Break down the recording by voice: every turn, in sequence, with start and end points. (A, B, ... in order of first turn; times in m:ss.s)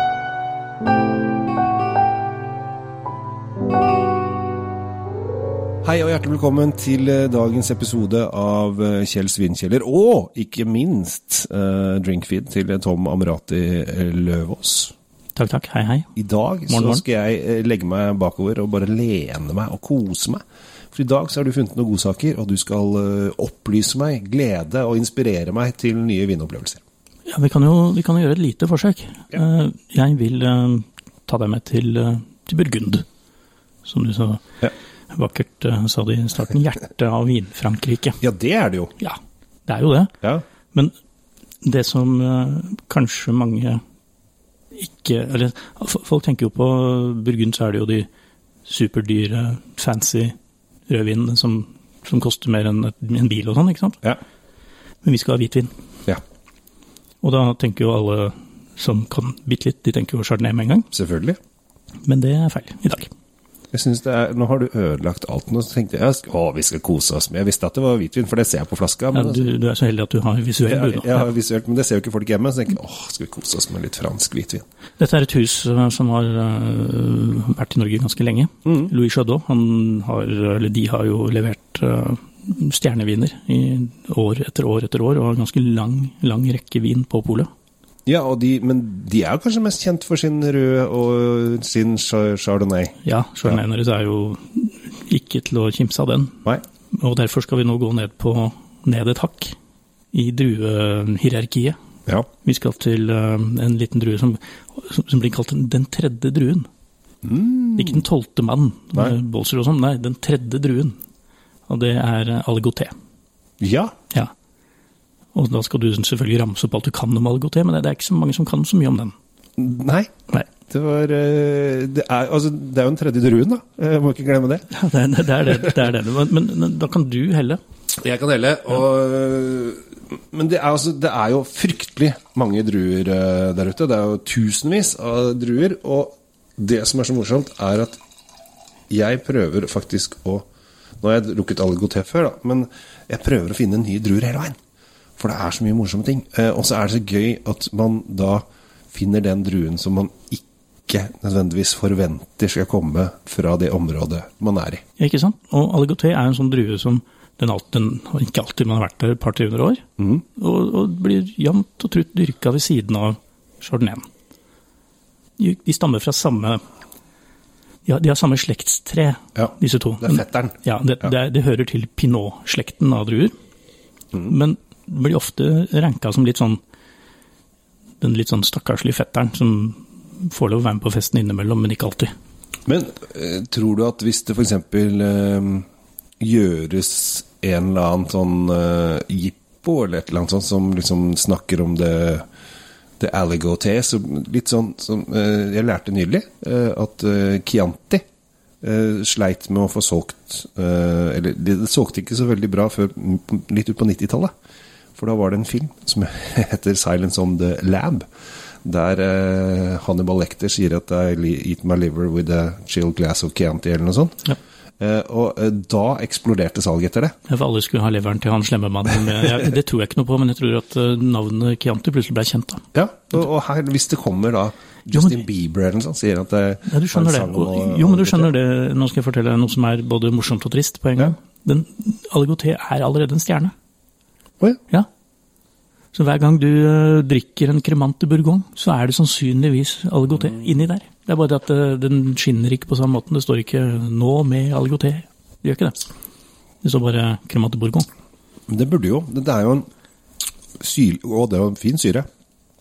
0:05.8-0:14.9 A
0:15.4-0:16.1 B
0:16.2-0:26.8 A
0:16.7-0:17.0 B
0:27.3-0:33.0 B
0:33.8-0:34.4 B
0:35.1-0:38.2 B
0:38.2-0:38.9 A
0:39.0-0:40.1 B
0:41.6-0:43.8 B
0:44.7-0:48.1 B
0:48.7-0:50.4 B
0:50.9-0:54.0 B
0:55.0-0:55.7 B
0:57.2-1:00.9 B
1:00.9-1:01.4 A
1:02.0-1:03.1 B
1:03.7-1:09.5 A
1:09.1-1:11.3 B
1:10.7-1:14.7 A
1:15.0-1:27.5 B
1:28.1-1:33.6 A
1:33.0-1:39.5 B
1:40.1-1:41.8 B
1:42.4-1:46.7 B
1:47.2-1:48.0 A
1:47.8-1:51.0 B
1:51.7-1:52.9 B
1:53.6-1:53.9 A
1:55.3-1:59.1 B
1:59.6-2:04.7 A
2:04.7-2:07.6 B
2:08.0-2:18.0 A
2:18.9-2:20.5 A
2:21.0-2:24.6 A
2:25.2-2:34.8 A
2:35.0-2:39.8 B
2:40.0-2:40.2 A
2:40.4-2:44.1 B
2:45.4-2:46.6 B
2:47.9-2:53.3 B
2:49.4-2:51.1 A
2:54.3-2:56.6 B
2:58.0-3:02.1 B
3:02.7-3:05.7 A
3:06.2-3:12.3 A
3:13.0-3:18.0 A
3:18.6-3:24.3 A
3:25.0-3:28.1 A
3:28.6-3:34.2 A
3:34.8-3:37.2 A
3:37.3-3:42.6 B
3:42.7-3:48.3 A
3:46.7-3:53.5 B
3:55.9-4:05.8 B
4:06.6-4:07.9 B
4:08.5-4:09.7 A
4:10.6-4:12.1 A